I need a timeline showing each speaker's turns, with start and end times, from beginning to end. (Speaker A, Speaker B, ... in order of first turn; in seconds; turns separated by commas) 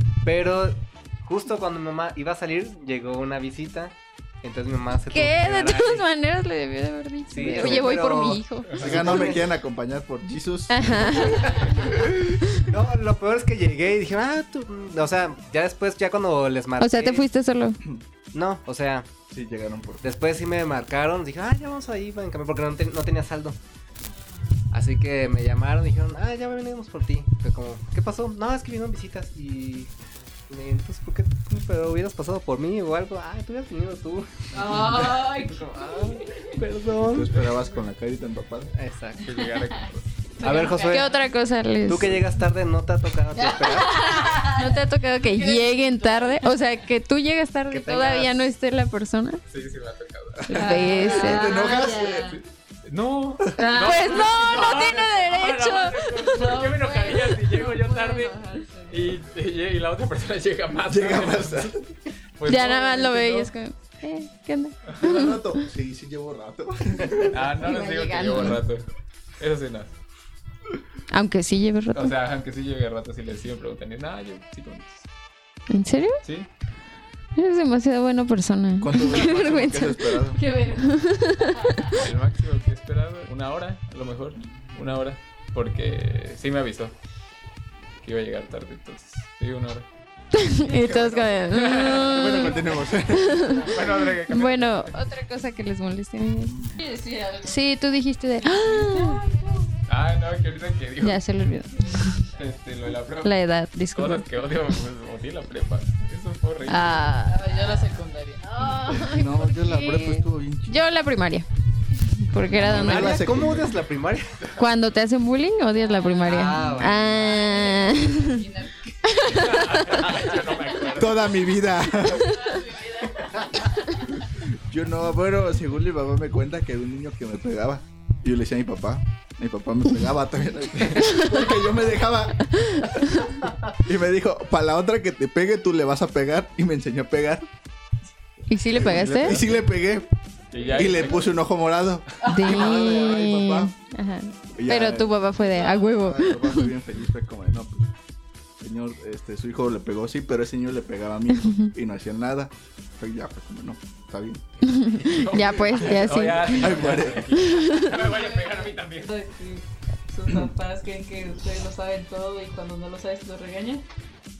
Speaker A: 0.2-6.1, Speaker B: 5.1-8.7, Speaker A: 7.3-9.5, Speaker C: 7.6-7.9, Speaker D: 8.7-9.1, Speaker C: 8.7-11.6, Speaker B: 10.7-11.7, Speaker A: 12.7-17.3, Speaker B: 16.8-17.8, Speaker A: 18.3-19.1, Speaker C: 19.3-20.1, Speaker A: 20.0-23.6, Speaker E: 24.2-24.6, Speaker A: 24.7-29.9, Speaker A: 30.5-37.3, Speaker E: 34.5-36.6, Speaker C: 37.0-38.8, Speaker D: 37.4-37.7, Speaker A: 38.8-39.3, Speaker D: 39.2-40.1, Speaker E: 39.4-39.7, Speaker E: 40.4-41.2, Speaker A: 40.4-41.1, Speaker B: 40.8-42.2, Speaker A: 41.9-44.0, Speaker E: 43.3-46.5, Speaker B: 44.1-49.4, Speaker A: 47.7-48.4, Speaker D: 49.5-50.7, Speaker B: 50.5-51.6, Speaker E: 50.5-52.4, Speaker C: 50.7-52.4, Speaker D: 52.3-61.8, Speaker B: 53.6-56.2, Speaker E: 53.6-55.0, Speaker E: 56.2-59.2, Speaker C: 60.9-61.9, Speaker D: 62.4-63.5, Speaker B: 62.5-65.6, Speaker D: 64.9-65.2, Speaker C: 65.0-67.4, Speaker D: 67.3-68.8, Speaker B: 67.5-68.6, Speaker D: 69.4-69.9, Speaker B: 71.1-72.1, Speaker D: 71.9-75.0, Speaker B: 75.7-76.2, Speaker D: 76.2-76.5, Speaker B: 77.4-82.0, Speaker C: 78.8-80.4, Speaker E: 80.4-81.0, Speaker E: 81.5-81.9, Speaker D: 81.9-87.0, Speaker D: 88.0-89.9, Speaker B: 90.3-96.7, Speaker C: 90.5-93.6, Speaker D: 91.5-92.3, Speaker D: 93.6-95.0, Speaker E: 96.8-97.6, Speaker B: 97.4-99.2, Speaker E: 98.5-99.7, Speaker D: 99.9-101.2, Speaker B: 101.0-102.3, Speaker D: 102.3-103.4, Speaker B: 103.2-104.3, Speaker D: 103.9-107.1, Speaker B: 106.7-107.7, Speaker E: 107.2-109.3, Speaker B: 108.6-111.5, Speaker C: 108.9-110.8, Speaker B: 112.1-113.2, Speaker A: 112.5-114.5, Speaker C: 112.6-113.8, Speaker B: 114.6-118.5, Speaker A: 116.2-117.2, Speaker E: 116.3-119.2, Speaker B: 119.0-120.0, Speaker D: 119.3-121.2, Speaker C: 120.9-122.3, Speaker B: 122.0-122.6, Speaker E: 122.3-124.2, Speaker C: 124.4-132.9, Speaker B: 131.0-131.5, Speaker B: 132.6-133.3, Speaker C: 133.8-137.5, Speaker B: 138.5-139.4, Speaker C: 138.7-140.1, Speaker D: 140.5-141.3, Speaker E: 140.6-141.0, Speaker C: 140.7-143.7, Speaker B: 142.2-146.7, Speaker E: 142.3-142.9, Speaker C: 144.6-147.9, Speaker E: 145.4-145.9, Speaker C: 148.6-154.7, Speaker B: 151.3-151.7, Speaker B: 154.6-158.1, Speaker D: 154.8-159.1, Speaker C: 156.6-157.3, Speaker E: 158.0-163.8